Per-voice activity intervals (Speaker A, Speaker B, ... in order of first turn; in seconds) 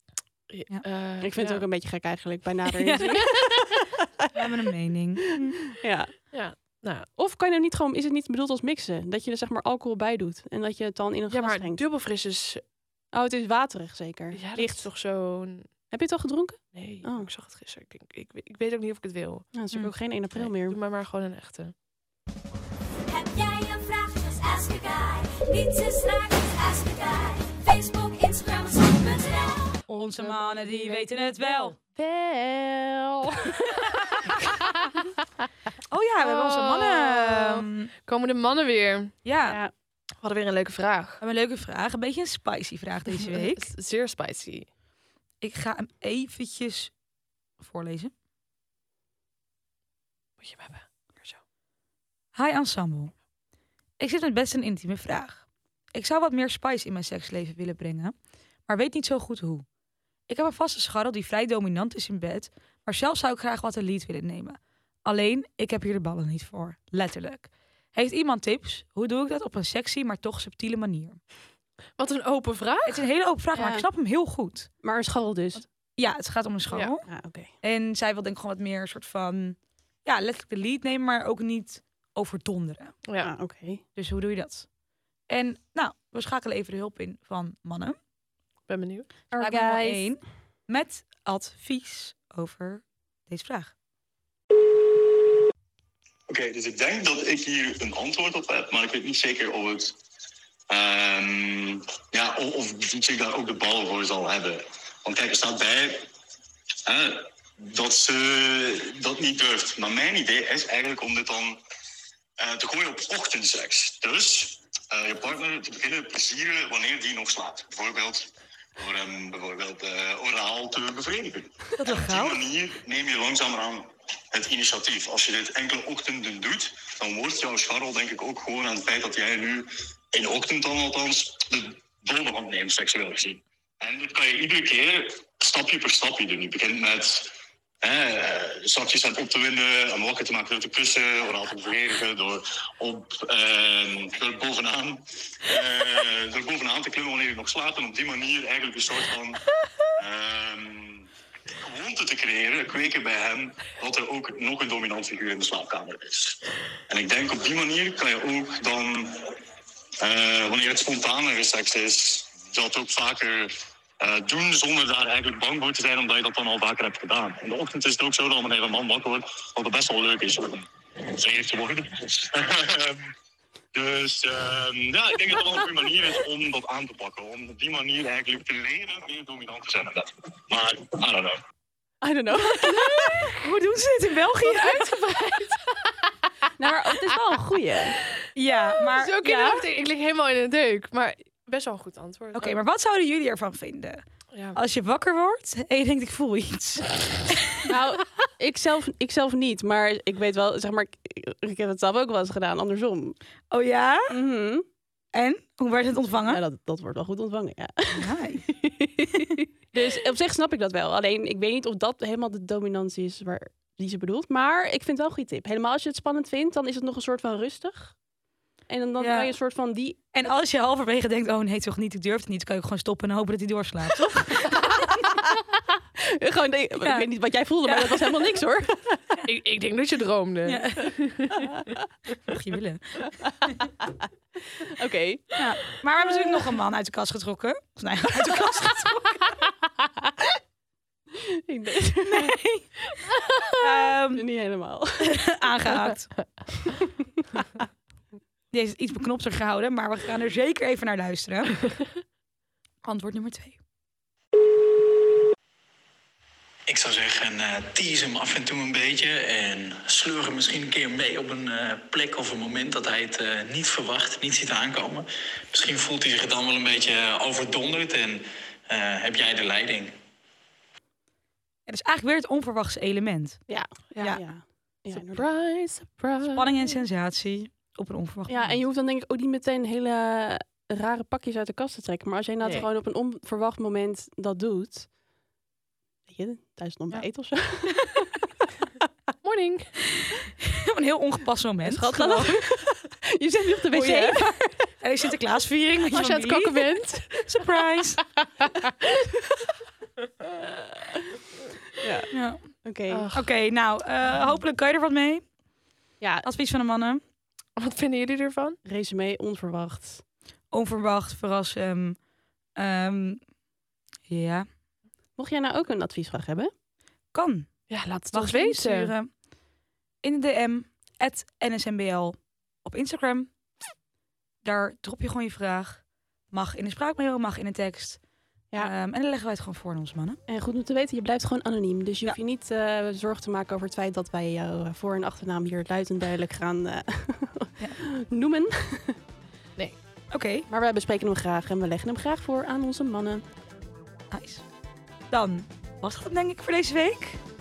Speaker A: 0.5-1.7, 3.0-3.3, 6.3-7.1, 11.3-12.6, 14.3-15.7, 16.7-19.5, 20.3-21.7, 36.2-39.2, 40.2-41.2, 43.2-44.7, 50.4-51.4, 72.0-73.0, 88.7-89.1, 184.4-186.1, 188.8-192.6, 194.3-194.6, 229.3-231.5, 273.9-274.2, 274.9-276.8, 282.4-282.7, 289.2-289.8, 295.9-297.4, 298.2-299.1, 302.9-303.3, 307.6-308.6, 317.7-318.9
Speaker B: 1.2-4.1, 5.7-6.1, 7.2-11.8, 13.1-14.9, 15.9-17.3, 19.5-20.8, 30.3-33.6, 73.5-73.9, 74.8-75.7, 77.1-77.5, 83.2-83.8, 89.3-90.1, 182.0-183.3, 186.6-188.0, 189.2-189.6, 197.7-203.2, 204.1-204.7, 206.3-208.1, 209.2-218.0, 218.7-220.0, 224.5-225.4, 226.0-229.0, 231.4-231.9, 233.2-235.3, 236.1-236.4, 241.2-242.4, 244.1-245.4, 273.5-275.3, 278.3-284.9, 286.1-288.1, 291.6-294.6, 301.8-302.1, 302.6-303.1, 306.0-306.3, 308.6-310.0, 315.2-316.5, 330.3-339.0, 340.5-343.2
Speaker C: 2.8-3.4, 4.3-5.6, 29.9-31.8, 33.7-34.4, 35.9-37.9, 39.2-39.6, 41.2-43.7, 45.4-46.9, 47.6-48.1, 52.4-53.1, 54.0-58.1, 58.7-59.6, 60.3-71.2, 72.9-74.7, 76.0-77.0, 77.6-83.0, 84.0-84.7, 85.3-88.0, 89.4-93.7, 121.8-122.4, 183.4-184.9, 188.3-189.2, 192.3-194.0, 194.5-197.4, 203.5-204.1, 205.1-206.4, 207.9-208.5, 219.0-219.3, 220.1-224.9, 226.8-227.1, 227.6-228.1, 230.5-230.9, 232.3-233.0, 235.4-239.3, 242.0-244.2, 245.0-246.1, 248.5-251.7, 252.8-253.6, 271.7-273.4, 276.3-278.6, 290.4-292.3, 293.7-294.2, 294.8-298.0, 302.1-302.4, 303.1-305.3, 306.2-307.0, 310.5-312.0, 312.6-313.2, 314.1-314.5, 317.1-317.5, 318.1-319.1, 320.0-323.3, 324.4-328.0, 328.6-330.2, 340.1-340.5, 344.1-344.4, 345.1-347.2
Speaker D: 23.1-29.8
Speaker E: 96.3-100.0, 100.7-106.1, 106.9-111.6, 112.4-149.4, 150.0-159.3, 160.0-173.1, 173.7-181.4
Speaker F: 256.7-269.9